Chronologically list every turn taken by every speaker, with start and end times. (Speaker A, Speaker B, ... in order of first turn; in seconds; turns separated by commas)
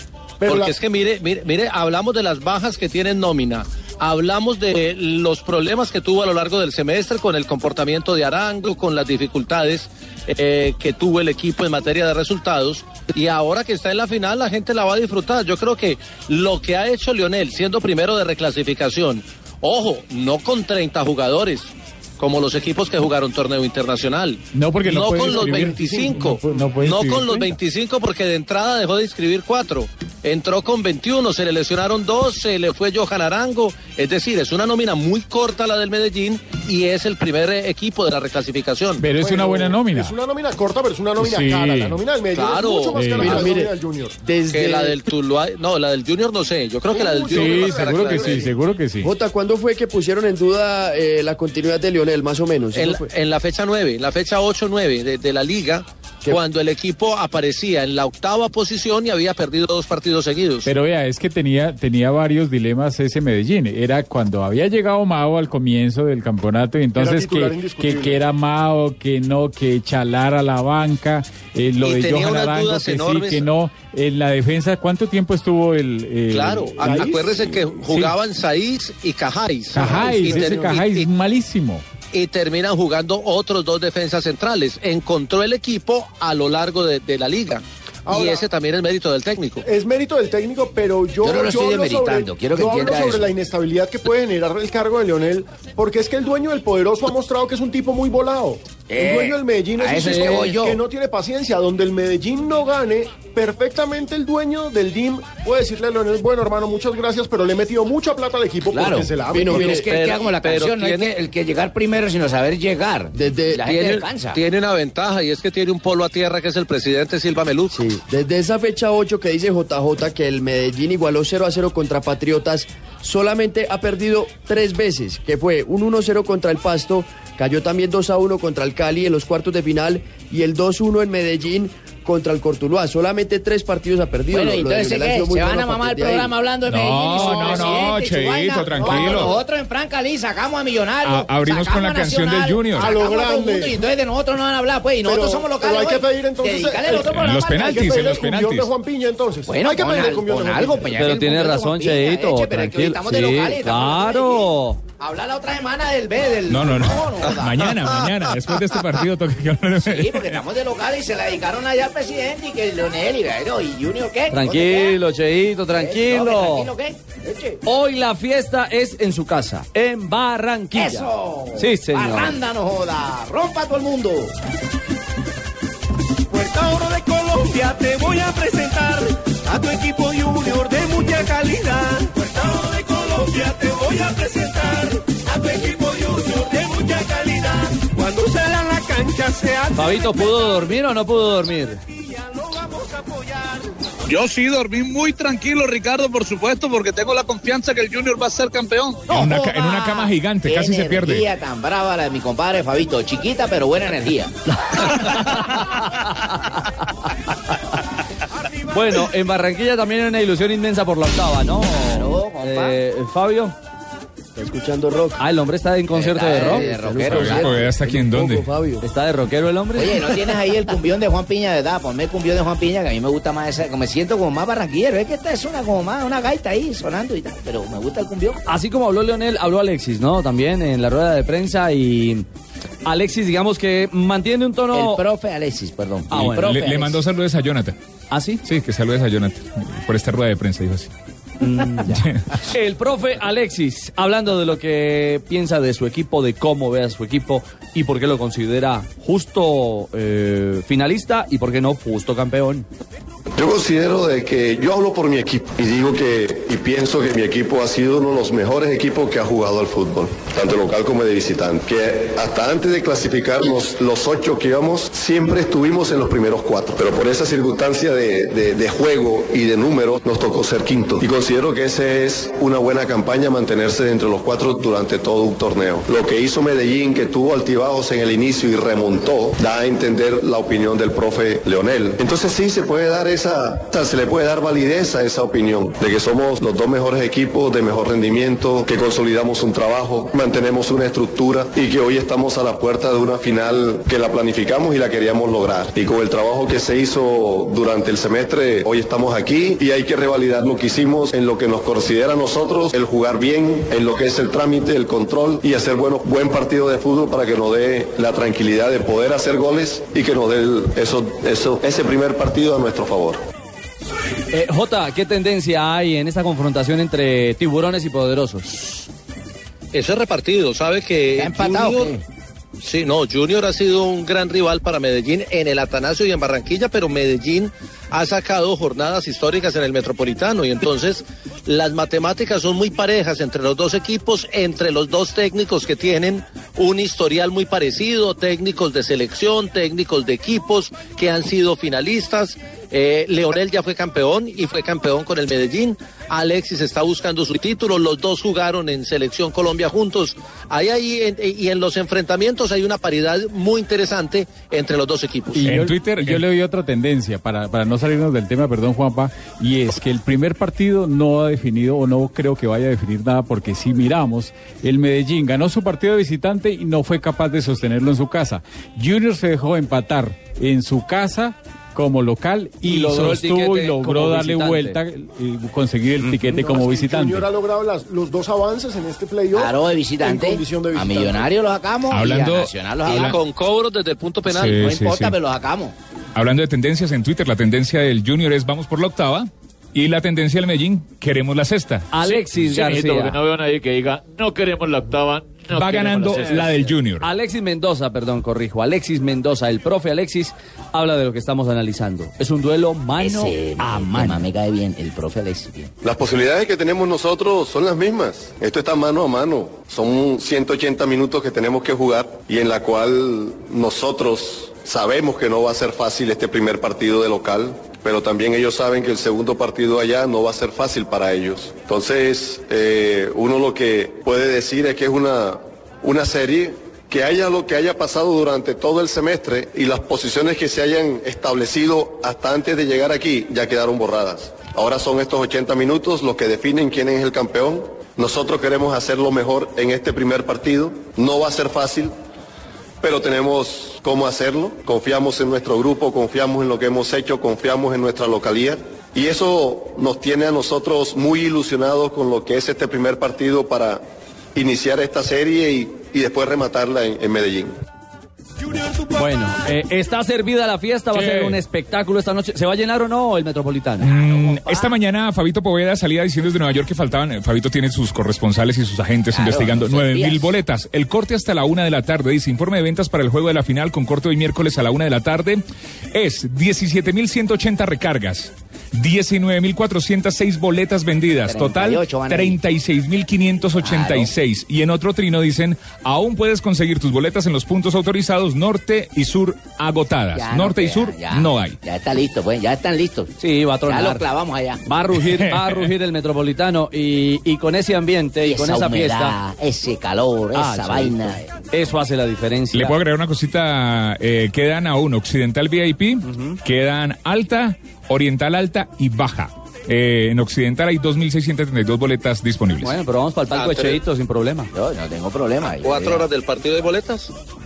Speaker A: 0.4-0.7, Speaker B: 0.4-39.0, Speaker C: 24.5-27.6, Speaker A: 25.2-26.1, Speaker C: 39.0-40.1, Speaker A: 39.1-44.2, Speaker C: 41.2-42.0, Speaker B: 42.3-43.5, Speaker C: 42.9-43.6, Speaker D: 43.2-43.6, Speaker D: 44.2-45.0, Speaker B: 44.5-48.5, Speaker A: 46.9-48.5, Speaker C: 47.3-49.1, Speaker D: 49.0-53.1, Speaker B: 52.7-60.7, Speaker C: 60.6-78.1, Speaker A: 67.0-68.2, Speaker B: 71.8-73.5, Speaker B: 76.3-81.1, Speaker A: 76.8-77.5, Speaker C: 79.7-81.8, Speaker A: 79.7-80.6, Speaker B: 82.1-89.6, Speaker A: 88.1-88.4, Speaker A: 89.6-109.8, Speaker E: 91.2-93.3, Speaker E: 98.9-100.8, Speaker B: 100.0-100.4, Speaker E: 108.7-114.4, Speaker D: 109.3-109.8, Speaker B: 109.6-111.1, Speaker D: 113.1-113.7, Speaker B: 113.7-117.8, Speaker D: 117.7-136.3, Speaker E: 134.3-148.0, Speaker F: 136.7-139.4, Speaker A: 138.7-139.3, Speaker F: 141.0-143.0, Speaker A: 142.7-143.8, Speaker A: 145.0-150.9, Speaker F: 147.1-148.7, Speaker E: 149.5-157.7, Speaker G: 150.9-154.8, Speaker F: 156.5-160.4, Speaker E: 159.8-165.0, Speaker G: 164.3-166.7, Speaker E: 165.7-167.6, Speaker G: 167.6-172.4, Speaker E: 170.7-174.3, Speaker H: 176.3-178.9, Speaker H: 179.5-190.0, Speaker G: 189.7-191.8, Speaker H: 192.5-193.5, Speaker I: 194.1-199.1, Speaker F: 199.1-201.3, Speaker E: 199.1-204.3, Speaker G: 204.8-206.5, Speaker G: 208.7-213.5, Speaker E: 211.8-212.8, Speaker D: 214.3-215.2, Speaker G: 215.2-216.7, Speaker E: 215.9-217.7, Speaker D: 216.3-218.8, Speaker F: 217.1-218.5, Speaker G: 218.8-220.2, Speaker E: 219.8-228.4, Speaker G: 228.4-232.2, Speaker G: 232.8-235.0, Speaker E: 234.7-237.0, Speaker G: 236.1-236.6, Speaker F: 236.1-237.8, Speaker G: 238.1-238.4, Speaker F: 238.4-240.9, Speaker G: 241.4-252.7, Speaker F: 241.9-242.2, Speaker J: 253.3-313.2, Speaker G: 314.3-318.9, Speaker B: 319.7-321.9, Speaker E: 321.2-322.0, Speaker B: 322.6-355.4, Speaker C: 355.4-377.3, Speaker F: 355.4-356.2, Speaker G: 372.6-374.8, Speaker A: 376.3-381.4, Speaker E: 379.3-383.2, Speaker F: 381.9-383.2, Speaker B: 382.9-384.6, Speaker F: 384.3-385.2, Speaker E: 384.5-385.7, Speaker F: 386.1-391.9, Speaker G: 391.9-393.2, Speaker K: 392.0-396.8, Speaker F: 395.5-397.1, Speaker G: 396.9-404.3, Speaker E: 403.0-405.7, Speaker J: 405.8-441.9, Speaker J: 442.8-453.8, Speaker J: 454.3-457.5, Speaker G: 458.9-463.9, Speaker F: 463.8-475.4, Speaker E: 464.2-464.7, Speaker E: 469.1-470.3, Speaker F: 475.9-491.6, Speaker E: 481.2-482.4, Speaker E: 483.6-484.1, Speaker E: 490.1-493.1, Speaker G: 493.2-494.0, Speaker E: 493.7-494.6, Speaker G: 494.6-499.2, Speaker F: 495.0-495.7, Speaker E: 498.2-501.3, Speaker G: 500.3-502.8, Speaker F: 502.5-512.8, Speaker G: 506.0-506.4, Speaker G: 512.6-514.5, Speaker B: 513.3-513.8, Speaker E: 514.5-516.1, Speaker B: 515.6-517.1